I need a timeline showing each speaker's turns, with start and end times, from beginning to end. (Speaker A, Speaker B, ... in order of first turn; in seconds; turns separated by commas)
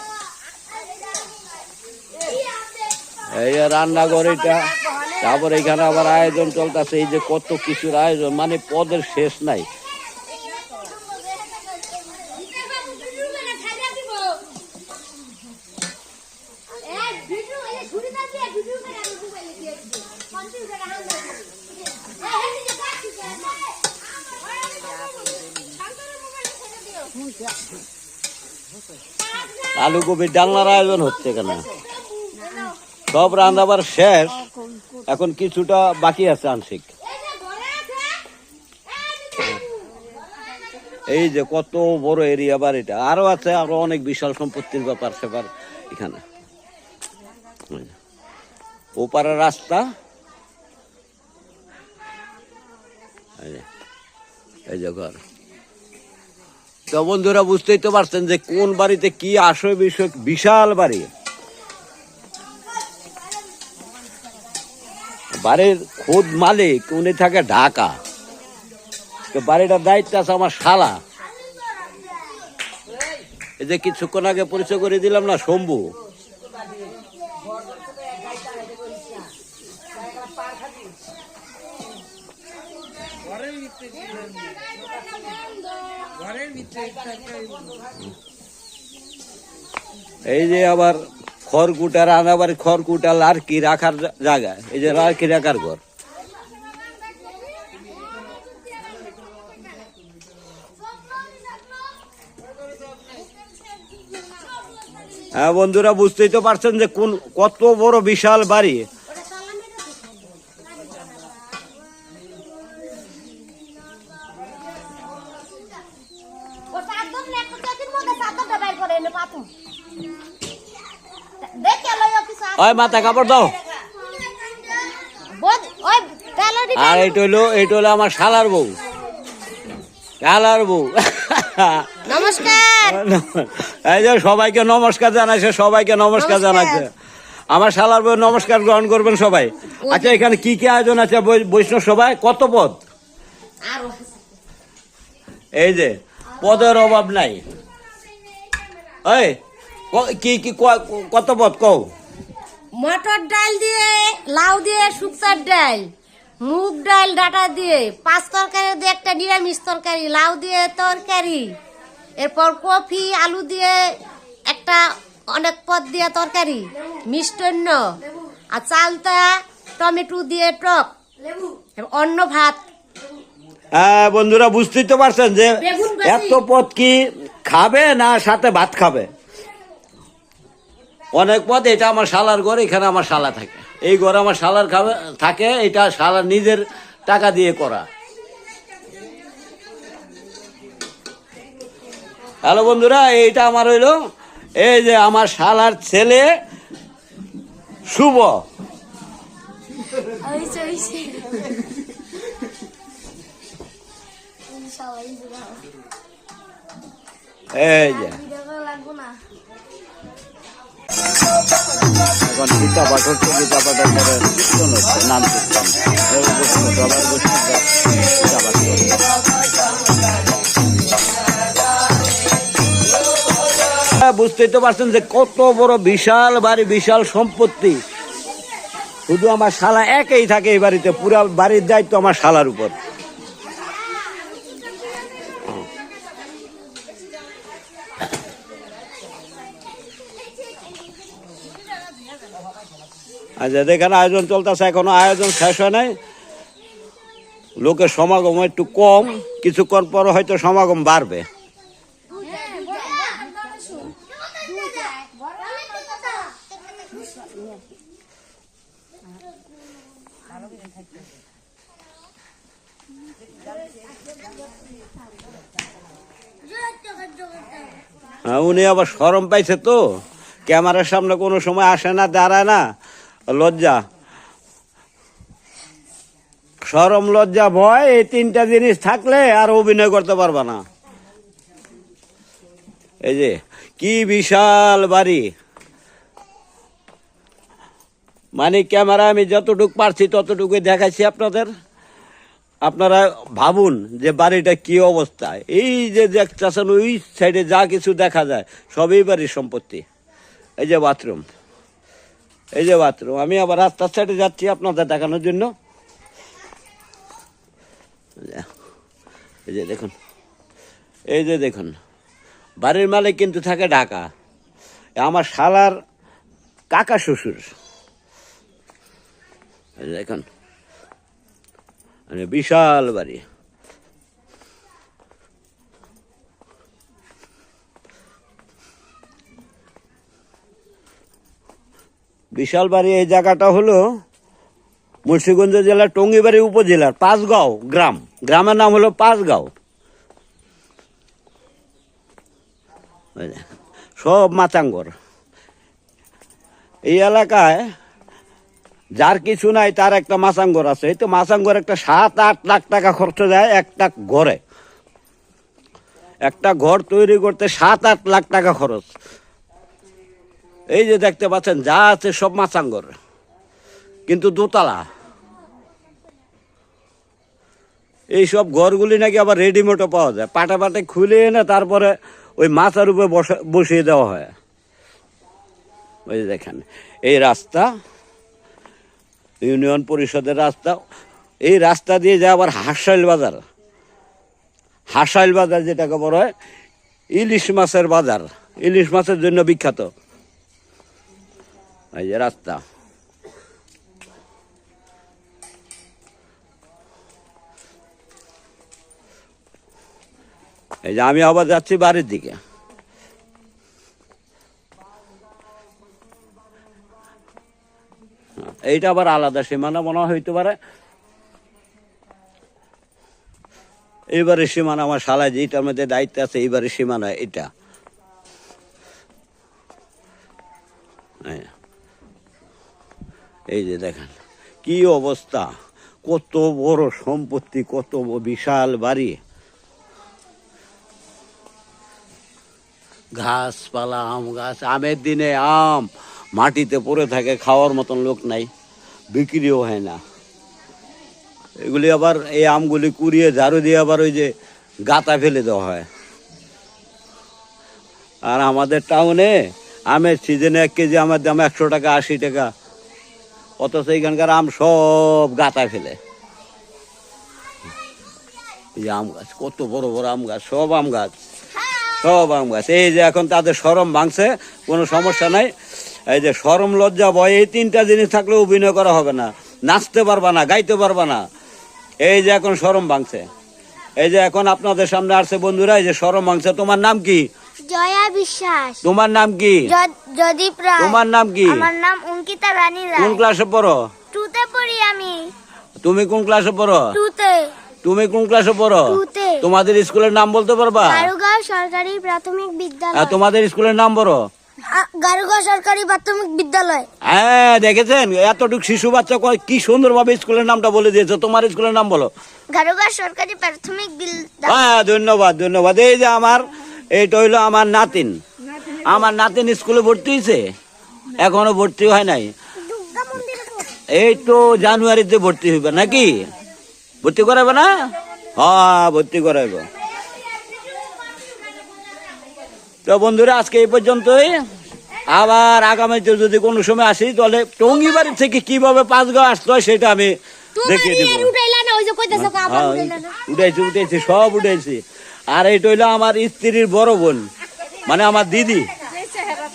Speaker A: 3.3-9.7, Speaker B: 13.1-14.4, Speaker B: 16.9-21.5, Speaker B: 22.2-23.5, Speaker B: 26.4-27.1, Speaker A: 29.8-31.7, Speaker A: 33.1-34.5, Speaker A: 35.1-36.9, Speaker A: 41.1-46.2, Speaker A: 49.0-49.8, Speaker A: 53.4-53.6, Speaker A: 54.7-55.2, Speaker A: 56.9-61.1, Speaker A: 65.4-67.9, Speaker A: 69.3-71.0, Speaker A: 73.6-75.9, Speaker A: 90.2-95.8, Speaker A: 105.3-108.8, Speaker B: 109.1-110.2, Speaker B: 116.7-119.5, Speaker B: 121.4-123.1, Speaker A: 122.5-123.5, Speaker B: 125.4-127.2, Speaker A: 126.8-128.7, Speaker A: 130.2-136.9, Speaker B: 132.1-133.0, Speaker B: 136.2-136.8, Speaker A: 137.5-142.8, Speaker B: 139.8-140.2, Speaker B: 143.7-144.1, Speaker A: 145.6-147.4, Speaker A: 149.0-149.4, Speaker A: 149.9-151.8, Speaker B: 152.8-155.8, Speaker B: 156.4-161.5, Speaker B: 162.2-163.8, Speaker B: 164.5-172.6, Speaker A: 173.7-179.1, Speaker B: 175.6-176.4, Speaker A: 181.1-187.8, Speaker A: 192.4-193.9, Speaker A: 194.6-196.3, Speaker A: 197.9-198.4, Speaker C: 200.2-201.3, Speaker C: 204.5-205.6, Speaker A: 207.5-208.2, Speaker C: 208.1-209.2, Speaker A: 212.2-219.0, Speaker A: 223.8-227.8, Speaker A: 229.1-232.7, Speaker A: 243.4-245.9, Speaker A: 247.6-251.2, Speaker B: 252.2-253.8, Speaker B: 254.7-255.1, Speaker C: 266.6-267.6, Speaker A: 268.2-269.8, Speaker A: 270.5-272.6, Speaker A: 273.3-273.8, Speaker A: 276.7-280.6, Speaker A: 283.1-285.2, Speaker A: 288.4-291.5, Speaker A: 292.6-299.8, Speaker A: 300.6-301.2, Speaker A: 302.6-305.5, Speaker A: 309.5-309.9, Speaker A: 311.1-311.7, Speaker A: 312.6-314.1, Speaker A: 315.0-315.7, Speaker A: 316.7-317.5, Speaker A: 319.8-320.2, Speaker A: 322.1-323.2, Speaker A: 332.3-333.8, Speaker A: 335.1-339.5, Speaker A: 343.2-343.4, Speaker A: 344.0-344.9, Speaker A: 346.9-347.6, Speaker A: 349.0-354.4, Speaker A: 356.2-358.8, Speaker A: 360.7-362.9, Speaker A: 364.1-364.8, Speaker A: 368.1-374.3, Speaker A: 376.1-377.7, Speaker A: 379.4-380.8, Speaker A: 381.4-383.4, Speaker A: 384.9-386.3, Speaker A: 387.1-389.9, Speaker A: 391.9-392.6, Speaker A: 400.8-402.4, Speaker A: 408.4-410.6, Speaker A: 414.1-417.5, Speaker A: 421.2-421.5, Speaker A: 423.5-424.1, Speaker A: 424.6-425.5, Speaker A: 426.1-429.2, Speaker A: 433.2-438.5, Speaker A: 439.1-440.0, Speaker A: 441.6-444.3, Speaker A: 444.9-445.9, Speaker A: 448.3-449.3, Speaker A: 449.9-452.5, Speaker A: 453.6-456.0, Speaker A: 458.8-461.1, Speaker C: 461.6-462.0, Speaker A: 462.0-465.5, Speaker A: 466.1-471.2, Speaker A: 472.0-473.2, Speaker A: 474.0-477.3, Speaker C: 477.7-478.8, Speaker A: 478.8-479.7, Speaker C: 479.7-483.2, Speaker A: 480.8-481.6, Speaker A: 483.0-483.8, Speaker C: 484.1-485.2, Speaker A: 485.8-486.9, Speaker C: 486.9-487.5, Speaker A: 487.8-491.1, Speaker C: 488.9-489.4, Speaker C: 490.8-493.2, Speaker A: 492.9-494.2, Speaker C: 494.7-496.9, Speaker A: 497.1-502.1, Speaker C: 502.5-504.7, Speaker A: 504.4-506.4, Speaker A: 506.9-508.1, Speaker A: 508.9-510.4, Speaker A: 511.2-512.3, Speaker C: 512.7-513.8, Speaker A: 513.9-516.2, Speaker A: 517.0-517.7, Speaker A: 518.3-519.6, Speaker A: 522.9-524.4, Speaker A: 525.1-531.3, Speaker B: 530.6-533.1, Speaker A: 532.1-537.2, Speaker A: 537.8-538.7